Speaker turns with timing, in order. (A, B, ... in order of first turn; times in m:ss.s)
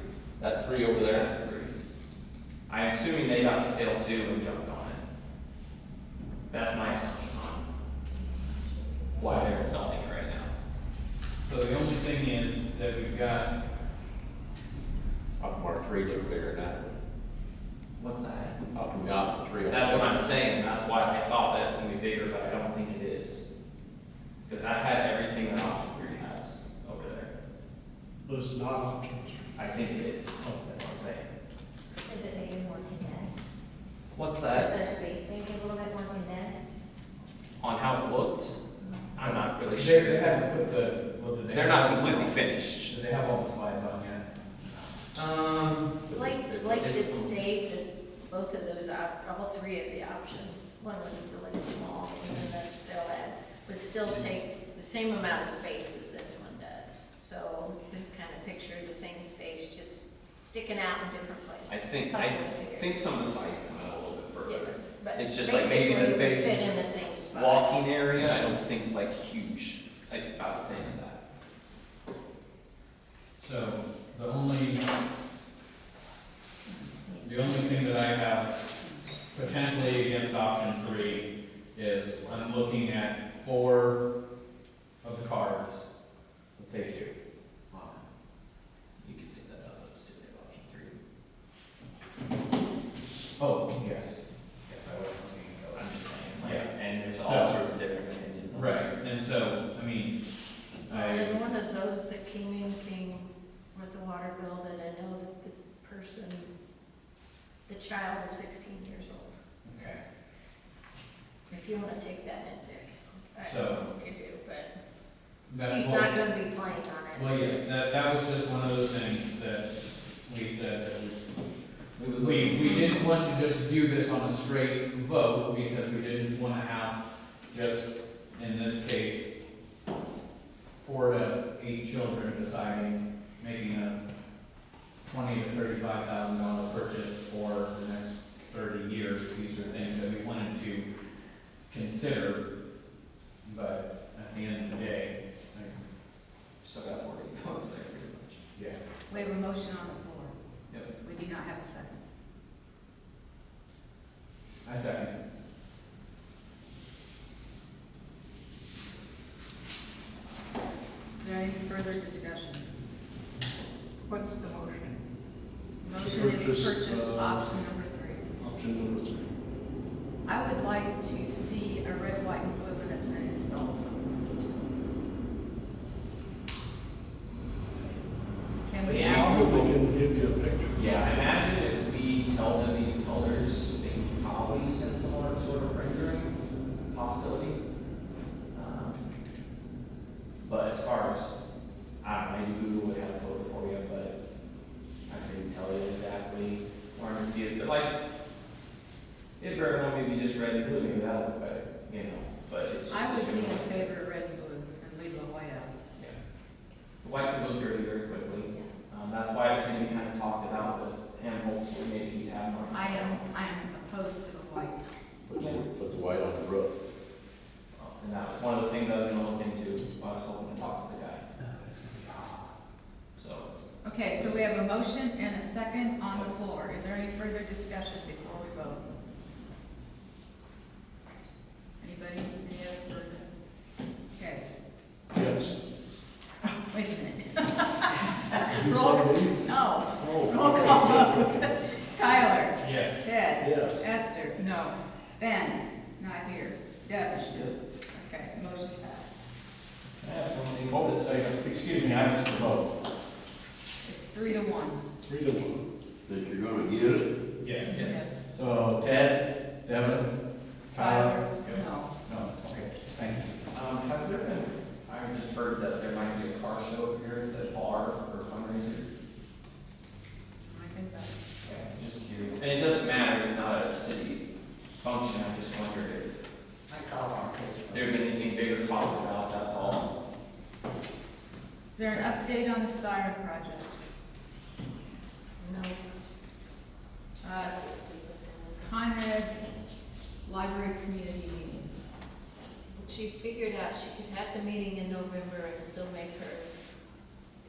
0:00.4-0:01.3 A
0:01.1-0:01.8 B
0:02.7-0:05.0 B
0:06.5-0:07.6 B
0:08.1-0:09.5 C
0:09.2-0:10.5 B
0:11.4-0:13.5 D
0:15.4-0:16.9 A
0:18.0-0:18.6 B
0:18.7-0:20.2 A
0:19.7-0:23.5 B
0:24.4-0:27.3 B
0:28.2-0:29.6 E
0:29.6-0:31.3 B
0:32.0-0:33.3 F
0:34.1-0:34.7 B
0:34.5-0:36.8 F
0:37.6-0:38.5 B
0:39.2-0:40.4 B
0:39.3-0:44.3 D
0:41.5-0:42.9 B
0:45.1-0:47.4 B
0:46.1-1:03.7 C
1:01.7-1:06.8 B
1:04.4-1:07.7 C
1:07.3-1:11.2 B
1:13.4-1:14.8 D
1:17.2-1:18.6 D
1:19.3-1:24.0 D
1:25.0-1:25.8 D
1:26.6-1:27.1 D
1:29.0-1:31.0 B
1:33.4-1:37.6 D
1:35.7-1:39.0 B
1:38.5-1:40.2 D
1:40.8-1:41.4 D
1:40.9-1:46.5 C
1:47.6-1:49.4 C
1:49.6-1:50.0 D
1:51.5-1:54.7 C
1:53.4-1:53.9 D
1:55.5-1:56.2 D
1:55.6-1:57.3 C
1:57.1-2:01.2 D
2:02.0-2:03.1 B
2:02.1-2:09.3 D
2:10.8-2:14.0 D
2:15.0-2:20.9 D
2:21.7-2:22.5 D
2:23.4-2:25.8 D
2:26.6-2:28.4 B
2:29.1-2:30.3 G
2:30.9-2:32.0 G
2:34.6-2:35.1 D
2:41.2-2:42.7 G
2:45.8-2:48.3 G
2:45.9-2:47.5 E
2:48.4-2:49.3 E
2:50.2-2:54.2 G
2:58.6-2:59.7 G
2:58.8-3:00.9 E
2:58.9-2:59.7 B
3:00.7-3:07.6 B
3:08.5-3:09.0 B
3:10.4-3:11.4 B
3:12.0-3:14.2 B
3:15.1-3:17.9 B
3:19.4-3:23.9 B
3:22.9-3:25.7 G
3:27.0-3:33.3 B
3:32.7-3:34.8 G
3:35.3-3:36.7 A
3:37.7-3:41.2 B
3:43.2-3:43.5 B
3:43.8-3:48.8 G
3:44.0-3:44.4 B
3:51.8-3:53.3 G
3:54.1-3:54.4 G
3:55.1-3:55.6 E
3:56.7-4:09.1 G
3:58.5-4:01.3 E
4:00.2-4:00.9 A
4:02.6-4:03.0 D
4:03.4-4:03.8 E
4:07.3-4:07.5 B
4:10.0-4:11.3 B
4:10.7-4:12.6 H
4:11.5-4:12.4 D
4:13.8-4:14.8 G
4:15.0-4:15.6 E
4:16.1-4:17.1 A
4:17.4-4:17.8 D
4:17.6-4:18.3 G
4:17.7-4:18.0 B
4:18.3-4:20.0 H
4:20.7-4:21.3 H
4:20.7-4:21.9 G
4:21.0-4:23.3 D
4:23.5-4:28.9 B
4:30.4-4:31.2 G
4:31.4-4:34.2 B
4:34.8-4:36.1 B
4:37.7-4:39.9 B
4:41.7-4:43.8 G
4:45.4-4:45.9 C
4:47.2-4:47.6 G
4:47.3-4:48.8 C
4:48.6-4:49.4 G
4:50.2-4:51.7 G
4:52.7-4:56.5 C